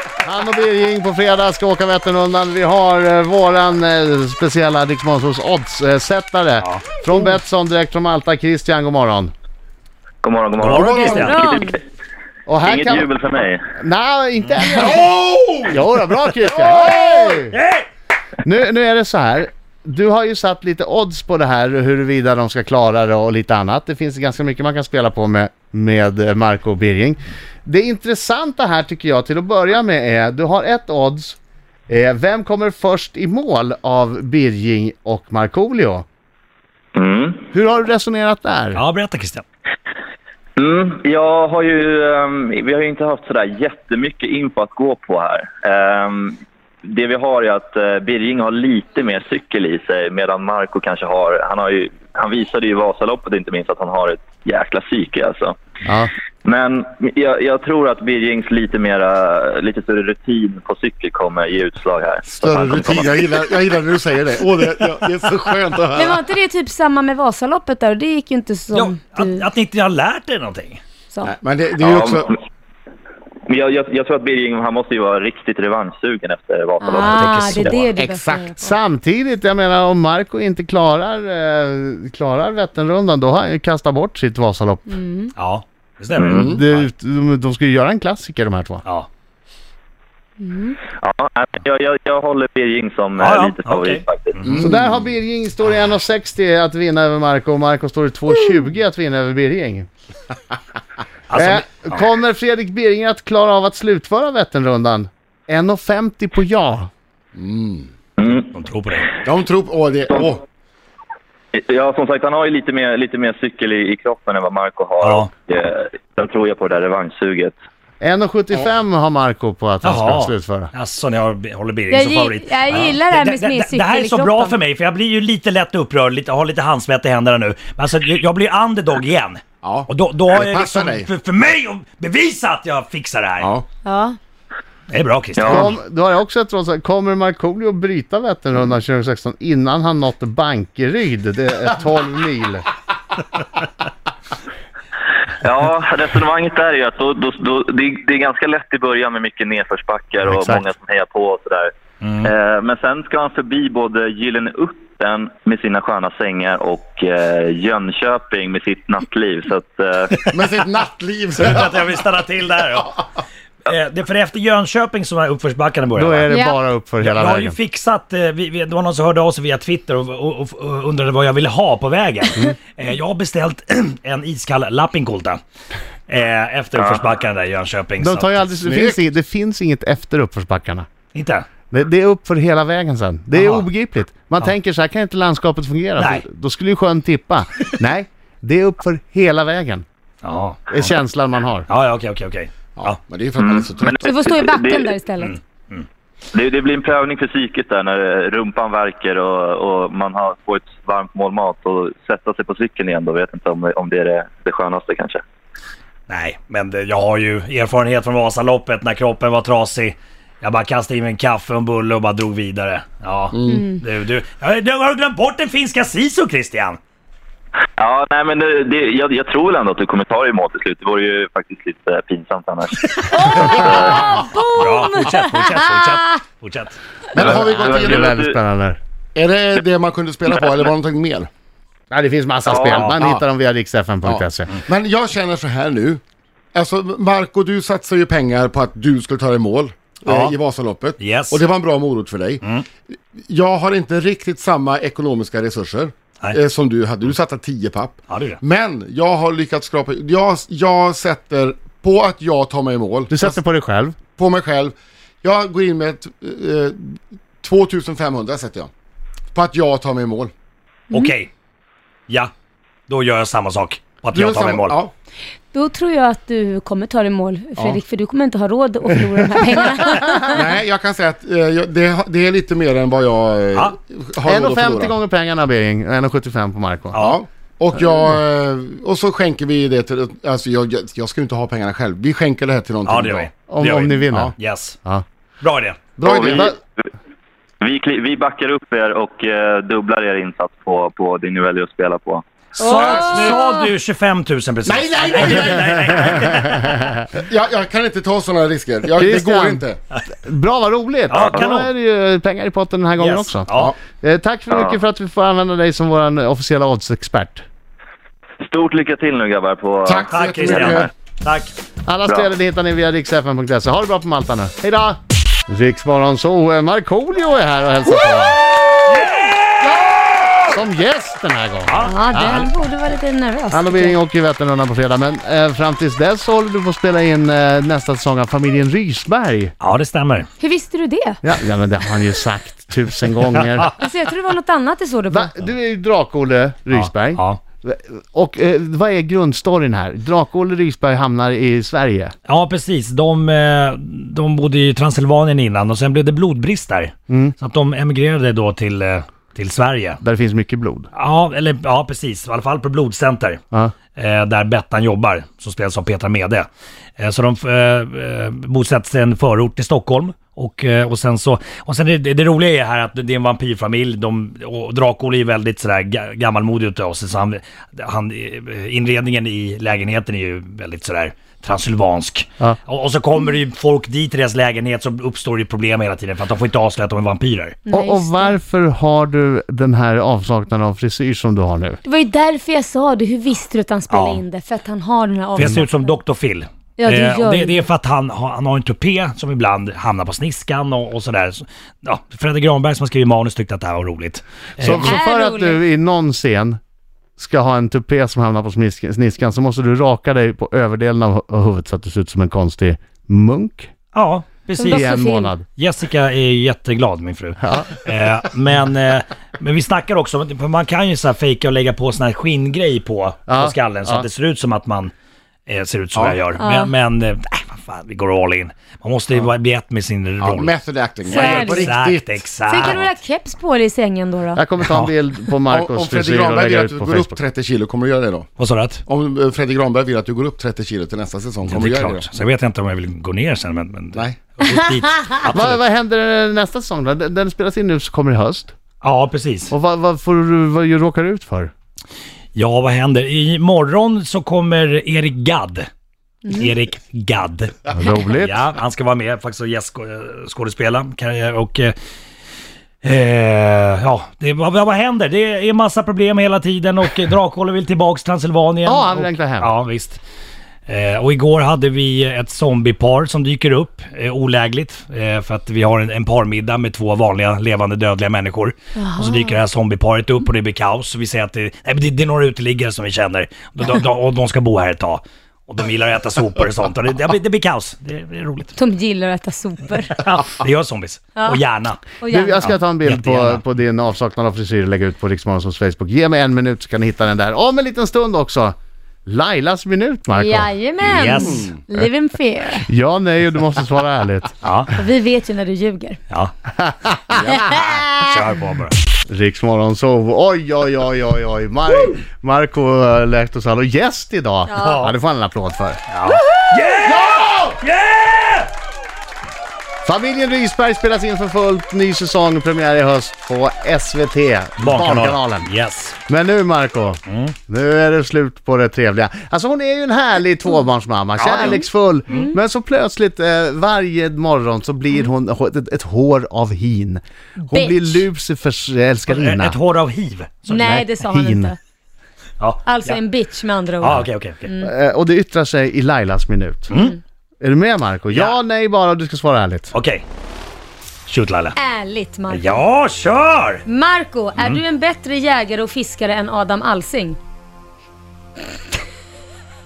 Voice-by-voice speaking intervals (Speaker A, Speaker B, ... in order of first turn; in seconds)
Speaker A: 0.2-9.3, 12.5-13.1, 13.7-15.1, 15.6-17.6, 18.4-31.4, 31.9-36.0, 37.5-38.8, 55.8-56.1, 78.6-85.0, 86.3-88.8, 94.6-99.9, 101.3-106.9, 118.0-120.7, 135.4-142.6, 150.2-150.6, 165.9-167.6, 178.0-180.9, 181.7-189.8, 190.7-191.7, 227.2-228.8, 231.9-234.5, 253.1-254.0, 274.2-277.0, 283.5-285.0, 286.3-286.6, 296.1-296.6, 299.0-299.6, 300.1-307.4, 311.9-318.4, 320.5-322.5, 323.5-329.5, 331.2-333.7, 335.1-342.1, 347.1-347.3, 350.0-350.9, 377.7-381.8, 394.6-396.6, 397.2-403.7, 404.6-405.4, 413.3-414.1, 424.4-427.2, 435.2-438.5, 439.5-441.5, 447.7-448.4, 458.6-459.5, 482.1-490.5, 492.6-494.4, 496.6-497.2, 499.1-505.8, 509.8-515.5, 516.1-529.6, 530.5-531.5, 534.6-536.8, 537.4-539.7
Speaker B: 10.2-11.8, 12.6-13.6, 37.0-37.4, 40.6-55.5, 56.4-63.2, 71.8-72.3, 73.5-77.8, 86.2-86.5, 90.8-94.4, 108.2-108.4, 111.5-117.5, 135.4-135.7, 145.4-160.1, 193.4-194.9, 196.3-205.2, 217.8-224.1, 227.1-228.3, 232.4-232.9, 286.0-286.5, 287.6-292.2, 304.5-304.8, 308.4-310.9
Speaker C: 10.6-11.4, 16.5-17.9, 38.7-39.4, 68.7-70.8, 77.0-77.9, 85.3-86.9, 93.2-94.7, 101.3-102.0, 108.2-109.2, 115.0-115.3, 119.8-133.5, 134.9-135.7, 152.0-152.3, 160.2-160.4, 161.4-163.0, 163.6-166.3, 167.0-175.4, 176.1-178.5, 181.1-181.4, 183.3-183.7, 186.0-186.2, 190.2-190.9, 191.7-193.0, 195.2-195.8, 206.1-216.8, 223.3-226.8, 232.7-233.0, 240.1-240.3, 241.0-241.4, 248.1-248.4, 260.9-261.3, 262.9-264.8, 276.9-277.2, 282.9-284.8, 285.4-285.8, 292.6-296.8, 301.1-301.7, 303.0-303.7, 310.1-311.5, 318.9-319.6, 321.7-322.4, 329.6-330.3, 333.4-333.6, 336.7-337.4, 342.2-350.0, 350.9-353.4, 353.9-356.5, 357.0-377.6, 383.9-384.2, 385.4-395.0, 403.9-414.9, 415.5-420.5, 421.1-422.8, 428.4-428.8, 431.4-435.6, 438.8-439.5, 442.3-445.7, 446.2-451.7, 452.8-460.0, 460.7-478.5, 480.0-483.4, 490.8-491.6, 494.4-494.7, 497.6-498.8, 504.6-504.9, 505.9-508.5, 514.6-516.0, 517.0-517.3, 521.2-521.6, 529.1-530.6, 532.4-533.0, 533.8-534.5, 536.7-537.0, 538.1-538.4, 539.7-540.0, 541.1-541.5, 542.3-543.6
Speaker D: 10.8-11.3, 14.8-15.7, 62.3-66.2, 71.2-72.3, 78.0-78.5, 86.3-86.6, 94.5-94.9, 107.3-107.9, 109.2-110.4, 129.6-131.1, 133.4-133.7, 160.3-161.8, 178.6-179.0, 192.8-194.0, 213.3-213.7, 227.1-228.1, 229.1-231.3, 232.9-233.2, 234.0-236.0, 236.5-242.4, 243.2-253.3, 254.2-258.7, 259.3-260.3, 264.1-264.9, 270.3-275.0, 276.9-283.3, 286.0-286.6, 292.7-293.4, 294.6-296.2, 297.1-299.8, 303.5-303.7, 309.9-310.9, 415.9-416.2, 420.2-422.8, 425.5-428.3, 428.9-432.1, 497.1-497.4
Speaker E: 11.0-11.8, 66.0-69.4, 76.8-78.6, 84.9-85.3, 90.4-90.8, 121.9-124.5, 133.8-134.2, 166.3-166.6, 193.9-195.4, 213.5-213.8, 222.9-226.0, 265.5-270.4, 292.6-293.7, 321.8-324.0, 330.4-331.2, 333.8-335.3, 377.7-378.3, 381.8-385.9, 386.8-387.6, 394.8-395.6, 404.5-405.3, 416.4-416.7, 421.1-421.7, 422.4-424.4, 468.8-469.3, 478.5-480.0, 482.0-482.5, 490.1-492.7, 494.7-496.0, 497.3-497.9, 504.5-504.8, 522.1-522.4, 527.5-528.0, 530.5-531.6, 532.6-534.7, 541.5-542.6, 543.6-547.2